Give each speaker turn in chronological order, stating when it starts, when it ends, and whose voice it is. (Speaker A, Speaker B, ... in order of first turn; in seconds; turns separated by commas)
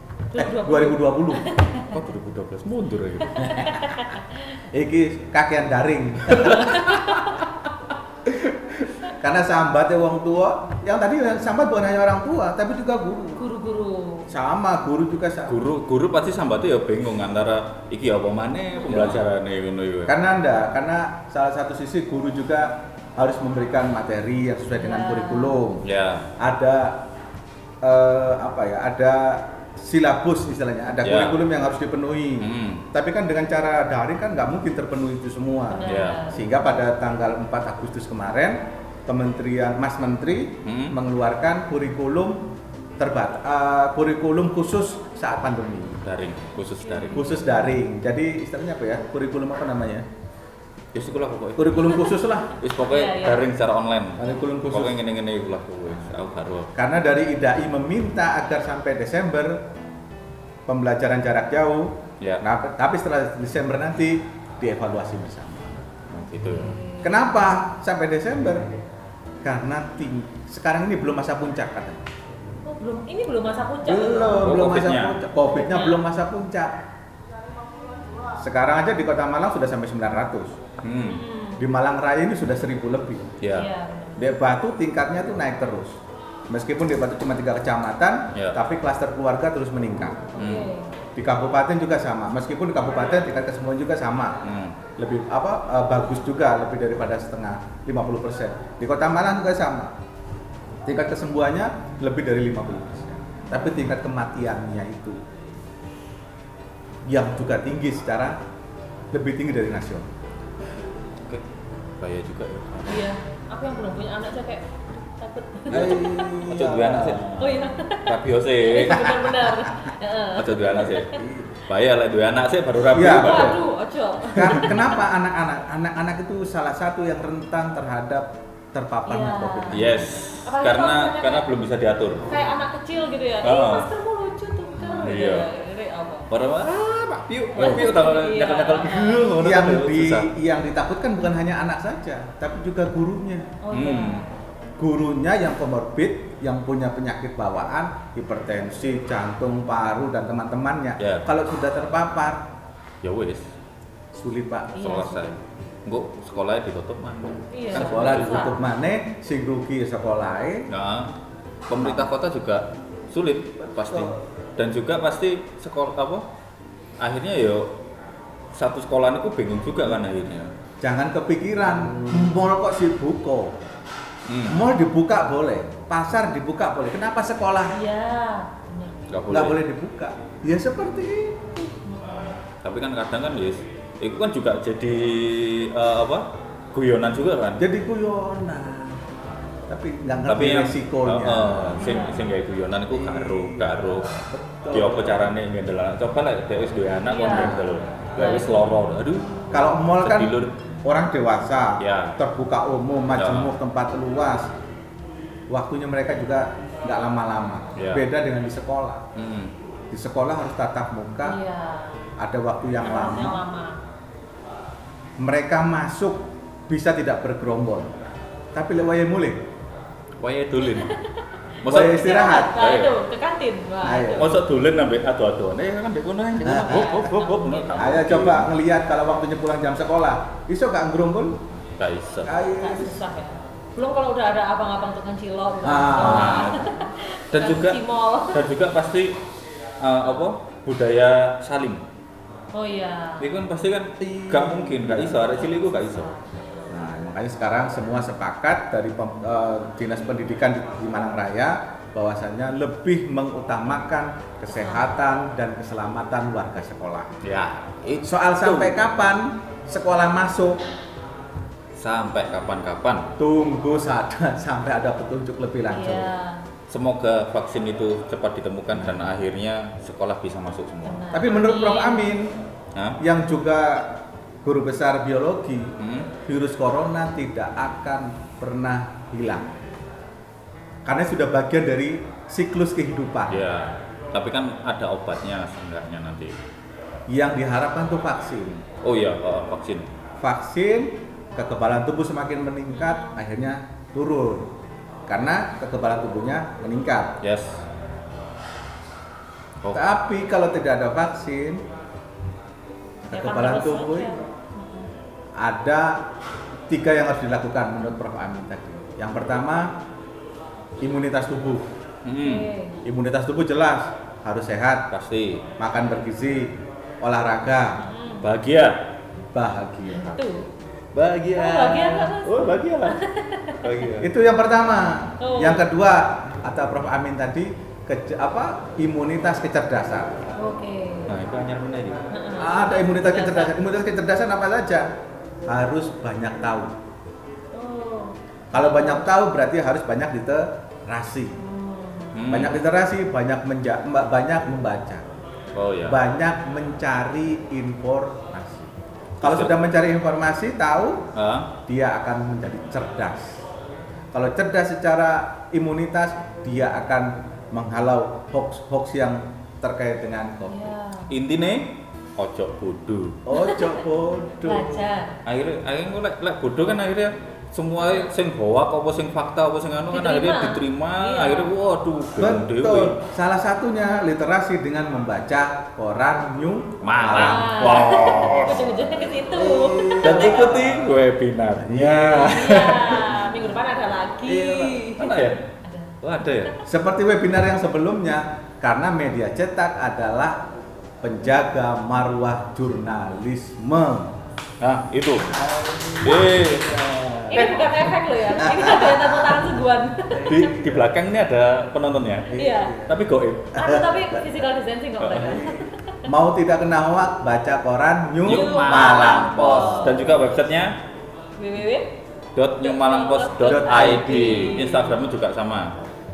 Speaker A: 0.3-2.0, Speaker B: 0.3-1.4, Speaker C: 1.9-3.6, Speaker A: 3.3-4.4, Speaker B: 4.7-7.0, Speaker C: 6.3-6.8, Speaker A: 6.6-7.4, Speaker B: 8.2-13.4, Speaker A: 13.3-14.3, Speaker B: 14.3-15.6, Speaker C: 15.5-20.1, Speaker A: 18.8-19.2, Speaker B: 20.1-25.8, Speaker A: 24.8-25.6, Speaker C: 25.8-26.3, Speaker B: 26.4-27.0, Speaker B: 27.8-42.4, Speaker C: 31.0-31.4, Speaker C: 32.4-32.8, Speaker A: 35.7-36.4, Speaker C: 35.9-36.2, Speaker C: 40.6-41.0, Speaker B: 43.0-46.0, Speaker C: 46.0-47.3, Speaker A: 46.8-47.4, Speaker B: 47.1-50.0, Speaker C: 50.9-56.7, Speaker B: 51.6-52.5, Speaker A: 52.8-53.4, Speaker B: 54.2-55.0, Speaker B: 56.7-59.6, Speaker B: 60.7-65.8, Speaker C: 66.1-66.8, Speaker A: 66.5-67.5, Speaker B: 67.0-68.7, Speaker B: 69.4-72.0, Speaker A: 72.6-74.5, Speaker B: 73.8-76.7, Speaker C: 74.4-75.2, Speaker A: 75.5-76.0, Speaker B: 78.4-80.6, Speaker C: 80.8-81.2, Speaker A: 81.0-81.6, Speaker B: 81.6-83.3, Speaker C: 83.4-83.7, Speaker A: 83.5-84.3, Speaker B: 84.2-86.0, Speaker B: 86.5-90.3, Speaker A: 90.3-90.9, Speaker C: 90.4-90.7, Speaker B: 91.2-94.4, Speaker C: 94.4-94.7, Speaker B: 95.0-99.9, Speaker B: 100.8-105.2, Speaker B: 107.1-108.4, Speaker B: 109.1-110.1, Speaker C: 112.0-113.1, Speaker A: 112.9-116.2, Speaker C: 115.7-119.5, Speaker B: 115.7-117.3, Speaker A: 117.4-121.1, Speaker C: 120.3-123.6, Speaker B: 121.0-121.6, Speaker B: 122.9-123.6, Speaker A: 123.2-124.7, Speaker B: 124.3-130.1, Speaker C: 124.4-124.9, Speaker A: 129.1-131.4, Speaker C: 129.7-132.3, Speaker A: 132.3-136.3, Speaker C: 133.4-133.9, Speaker C: 134.8-135.5, Speaker C: 136.3-140.3, Speaker A: 137.5-139.3, Speaker B: 137.6-137.9, Speaker B: 139.3-143.6, Speaker A: 143.6-144.3, Speaker C: 143.7-144.2, Speaker B: 144.8-152.4, Speaker C: 151.0-151.3, Speaker C: 153.0-153.5, Speaker B: 154.1-154.9, Speaker A: 154.7-155.3, Speaker C: 154.8-158.5, Speaker A: 157.5-158.5, Speaker B: 157.7-160.7, Speaker C: 160.7-161.1, Speaker C: 161.7-166.2, Speaker B: 163.9-164.1, Speaker C: 167.0-167.7, Speaker C: 168.5-170.5, Speaker B: 170.8-173.5, Speaker C: 174.3-174.6, Speaker B: 174.5-177.7, Speaker A: 177.7-179.0, Speaker C: 179.1-179.6, Speaker B: 179.3-181.8, Speaker A: 181.9-182.2, Speaker C: 182.6-187.6, Speaker B: 187.6-189.0, Speaker B: 189.7-192.0, Speaker C: 190.2-200.5, Speaker A: 191.8-192.3, Speaker B: 192.9-195.3, Speaker A: 197.1-197.6, Speaker B: 197.3-197.7, Speaker A: 198.2-198.7, Speaker B: 199.5-204.5, Speaker C: 201.8-202.2, Speaker C: 203.1-203.5, Speaker B: 205.5-209.0, Speaker C: 207.8-208.0, Speaker C: 209.1-209.5, Speaker B: 209.9-211.4, Speaker A: 211.2-212.0, Speaker B: 212.2-213.4, Speaker A: 212.8-213.8, Speaker B: 215.2-217.9, Speaker B: 218.5-219.4, Speaker C: 220.2-220.9, Speaker A: 220.6-221.0, Speaker C: 221.6-222.9, Speaker B: 221.7-222.6, Speaker A: 221.7-224.3, Speaker B: 223.8-224.4, Speaker C: 224.2-228.5, Speaker A: 226.4-228.1, Speaker B: 226.4-227.1, Speaker B: 227.8-231.4, Speaker C: 231.8-232.3, Speaker B: 232.2-233.0, Speaker A: 232.6-238.4, Speaker B: 235.6-236.5, Speaker C: 235.9-236.7, Speaker C: 237.3-239.1, Speaker C: 239.8-241.8, Speaker A: 242.5-243.3, Speaker C: 243.2-246.1, Speaker B: 244.0-245.3, Speaker A: 245.4-246.7, Speaker B: 246.7-257.1, Speaker A: 254.5-254.9, Speaker C: 257.2-258.8, Speaker B: 258.0-260.6, Speaker C: 261.8-263.1, Speaker B: 263.2-266.1, Speaker A: 265.7-266.4, Speaker C: 266.7-271.0, Speaker B: 268.7-269.1, Speaker A: 270.9-272.1, Speaker B: 271.1-272.3, Speaker B: 273.0-279.6, Speaker C: 275.8-276.1, Speaker B: 280.8-283.4, Speaker C: 283.3-286.3, Speaker B: 287.1-288.6, Speaker C: 288.7-289.9, Speaker B: 290.2-294.5, Speaker A: 292.7-293.2, Speaker B: 295.1-297.2, Speaker C: 297.2-297.6, Speaker C: 299.6-299.9, Speaker B: 299.7-301.6, Speaker A: 303.1-304.9, Speaker B: 303.1-304.1, Speaker B: 305.4-306.0, Speaker B: 306.7-309.7, Speaker B: 310.8-311.7, Speaker C: 312.0-312.5, Speaker A: 312.2-312.8, Speaker B: 312.8-314.8, Speaker C: 314.9-315.4, Speaker B: 315.6-317.8, Speaker A: 317.8-318.2, Speaker C: 318.2-318.8, Speaker B: 319.3-320.2, Speaker A: 319.9-320.5, Speaker C: 320.9-323.0, Speaker A: 321.3-323.6, Speaker C: 323.6-324.1, Speaker B: 324.0-330.2, Speaker A: 325.2-325.7, Speaker A: 330.4-331.2, Speaker C: 331.1-332.1, Speaker A: 332.1-333.5, Speaker B: 332.4-334.9, Speaker B: 335.4-336.7, Speaker A: 337.5-339.1, Speaker B: 338.5-341.4, Speaker A: 341.4-342.6, Speaker C: 342.1-342.6, Speaker B: 342.3-345.0, Speaker C: 345.5-346.0, Speaker B: 345.9-351.0, Speaker C: 349.2-349.5, Speaker C: 351.1-351.5, Speaker B: 351.7-353.4, Speaker B: 354.1-360.6, Speaker A: 360.5-361.1, Speaker C: 361.1-363.2, Speaker B: 363.3-364.9, Speaker A: 363.3-363.8, Speaker A: 364.4-365.2, Speaker C: 365.2-373.0, Speaker A: 369.9-371.5, Speaker B: 372.2-378.6, Speaker C: 376.8-378.9, Speaker A: 377.1-380.6, Speaker B: 379.2-381.0, Speaker C: 380.0-383.0, Speaker B: 381.6-383.0, Speaker A: 382.1-385.9, Speaker C: 384.3-385.4, Speaker C: 386.0-386.5, Speaker B: 386.6-390.4, Speaker B: 391.0-394.1, Speaker C: 394.6-395.3, Speaker B: 395.2-397.8, Speaker C: 396.0-396.7, Speaker A: 397.3-400.5, Speaker C: 397.3-397.6, Speaker B: 398.3-400.9, Speaker C: 400.2-403.7, Speaker B: 402.3-403.0, Speaker A: 402.3-402.8, Speaker B: 403.6-404.2, Speaker A: 403.6-406.0, Speaker C: 405.0-405.4, Speaker B: 405.2-410.2, Speaker C: 408.2-410.7, Speaker A: 408.3-410.0, Speaker A: 411.4-411.9, Speaker C: 412.3-415.7, Speaker A: 412.6-414.9, Speaker B: 413.4-414.6